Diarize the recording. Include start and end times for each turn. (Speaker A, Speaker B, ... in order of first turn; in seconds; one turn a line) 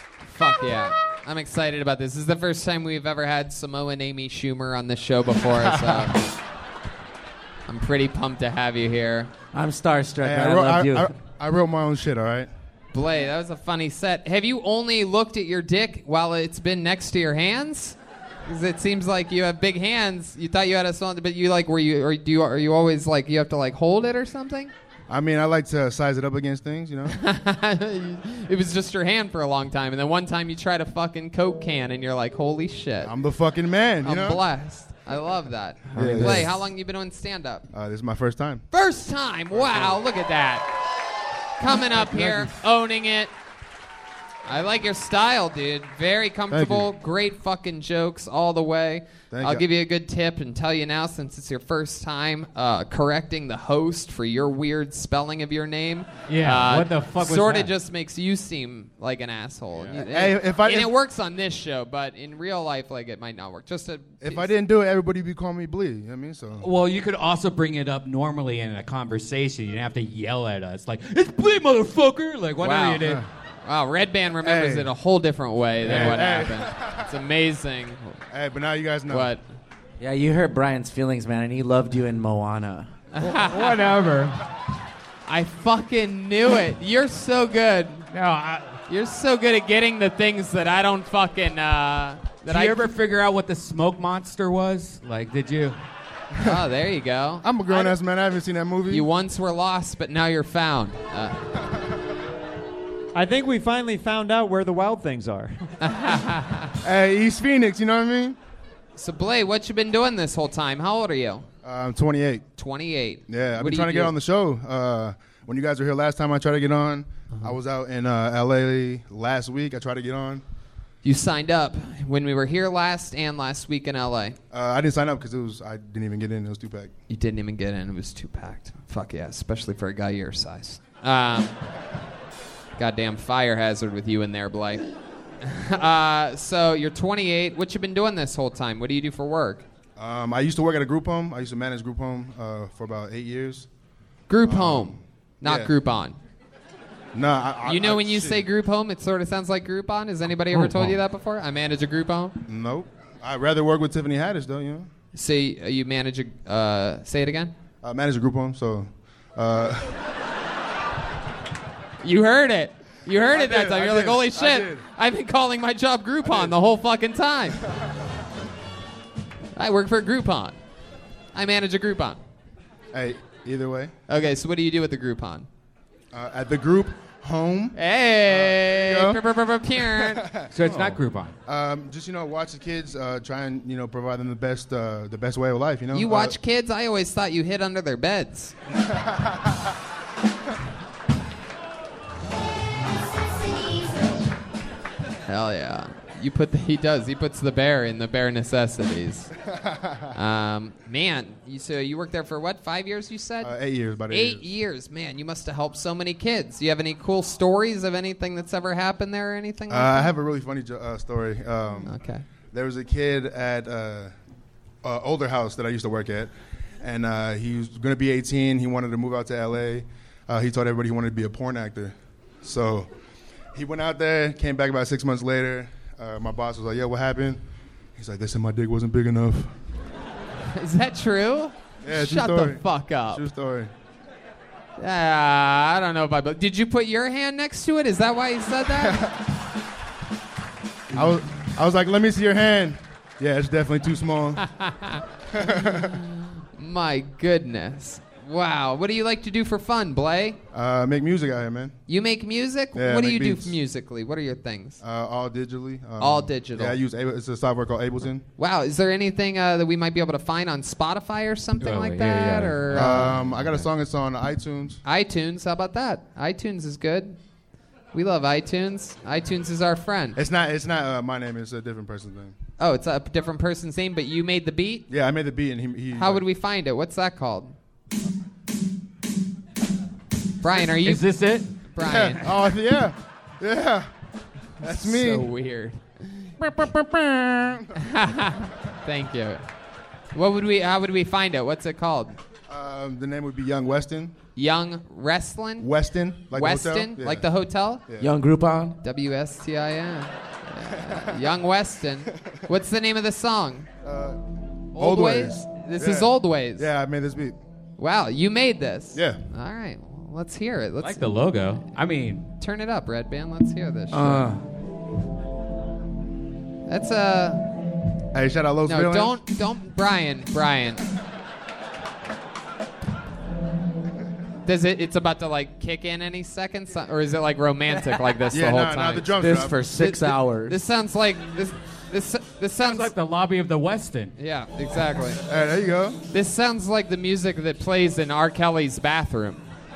Speaker A: 0.2-6.2
Speaker B: 5.7-6.0
Speaker A: 7.7-9.3
Speaker C: 9.5-11.1
Speaker B: 10.2-12.5
Speaker A: 12.9-24.7
Speaker B: 25.1-27.1
Speaker A: 27.1-33.1
Speaker B: 33.0-34.4
Speaker A: 34.0-37.6
Speaker B: 35.9-36.5
Speaker D: 35.9-36.5
Speaker B: 37.7-38.6
Speaker A: 38.7-40.7
Speaker B: 39.5-40.0
Speaker A: 41.6-43.3
Speaker B: 42.0-42.5
Speaker A: 44.5-64.5
Speaker B: 46.5-46.9
Speaker B: 49.3-49.6
Speaker D: 56.3-57.7
Speaker B: 60.0-60.9
Speaker B: 64.2-66.7
Speaker D: 66.6-73.2
Speaker A: 72.6-73.1
Speaker A: 73.6-78.2
Speaker B: 74.4-74.9
Speaker D: 75.8-76.2
Speaker B: 75.8-77.0
Speaker B: 78.3-79.3
Speaker A: 79.1-79.4
Speaker C: 80.0-82.9
Speaker A: 83.1-83.8
Speaker D: 83.2-84.4
Speaker A: 85.3-88.1
Speaker D: 88.1-88.8
Speaker A: 88.9-92.8
Speaker D: 92.5-95.8
Speaker A: 96.4-97.9
Speaker B: 97.4-99.0
Speaker A: 98.9-101.4
Speaker E: 103.1-105.6
Speaker A: 105.8-106.7
Speaker B: 106.8-108.4
Speaker A: 109.0-111.5
Speaker B: 111.6-112.4
Speaker A: 112.6-114.1
Speaker B: 113.3-120.4
Speaker A: 121.0-124.3
Speaker B: 124.5-126.9
Speaker A: 127.1-131.6
Speaker A: 132.8-134.8
Speaker A: 135.4-139.6
Speaker B: 140.0-143.7
Speaker A: 144.3-146.2
Speaker B: 144.4-145.7
Speaker B: 147.1-148.4
Speaker A: 147.7-152.4
Speaker D: 150.5-150.9
Speaker B: 152.5-154.9
Speaker A: 155.1-157.5
Speaker B: 157.8-159.9
Speaker A: 162.0-167.6
Speaker B: 163.3-164.8
Speaker B: 166.2-166.5
Speaker A: 169.5-170.6
Speaker A: 171.3-172.2
Speaker B: 172.9-173.9
Speaker A: 174.1-175.5
Speaker B: 176.1-177.8
Speaker A: 177.7-180.3
Speaker B: 178.3-179.2
Speaker B: 179.9-186.3
Speaker D: 180.5-181.3
Speaker A: 185.9-188.5
Speaker A: 195.3-199.3
Speaker A: 200.1-203.5
Speaker B: 203.4-204.4
Speaker A: 204.1-210.1
Speaker B: 209.7-211.9
Speaker A: 211.8-212.2
Speaker B: 212.5-214.1
Speaker B: 214.8-216.3
Speaker B: 216.8-222.9
Speaker B: 223.5-227.4
Speaker B: 227.9-229.5
Speaker A: 230.5-233.2
Speaker B: 231.8-233.7
Speaker A: 234.8-239.1
Speaker B: 240.9-244.4
Speaker A: 244.5-250.4
Speaker B: 245.3-246.0
Speaker B: 250.5-251.7
Speaker A: 251.9-254.8
Speaker B: 252.7-253.6
Speaker B: 254.8-258.2
Speaker A: 256.0-256.8
Speaker A: 258.4-263.1
Speaker D: 261.6-263.6
Speaker B: 262.7-264.8
Speaker A: 264.8-267.2
Speaker A: 267.9-270.2
Speaker B: 270.1-272.3
Speaker A: 272.6-274.9
Speaker B: 274.9-276.2
Speaker A: 275.9-277.5
Speaker A: 280.4-281.1
Speaker D: 280.8-281.5
Speaker A: 281.7-282.3
Speaker B: 281.8-283.9
Speaker B: 284.6-285.3
Speaker A: 284.6-286.5
Speaker B: 286.5-287.7
Speaker A: 287.7-289.4
Speaker A: 290.1-292.2
Speaker B: 292.5-294.1
Speaker A: 294.4-295.7
Speaker B: 295.6-297.2
Speaker A: 296.3-297.8
Speaker C: 298.0-298.8
Speaker A: 298.8-303.7
Speaker B: 303.8-304.2
Speaker A: 304.7-306.7
Speaker B: 304.7-307.4
Speaker A: 307.8-311.1
Speaker B: 308.9-309.2
Speaker D: 310.8-312.3
Speaker A: 312.4-314.3
Speaker D: 313.9-314.4
Speaker A: 316.7-317.5
Speaker B: 318.1-319.1
Speaker A: 318.6-320.8
Speaker A: 324.4-329.1
Speaker B: 328.3-329.6
Speaker C: 329.2-330.6
Speaker A: 329.7-332.9
Speaker D: 332.6-334.1
Speaker A: 334.2-335.2
Speaker B: 335.2-336.0
Speaker A: 336.1-339.4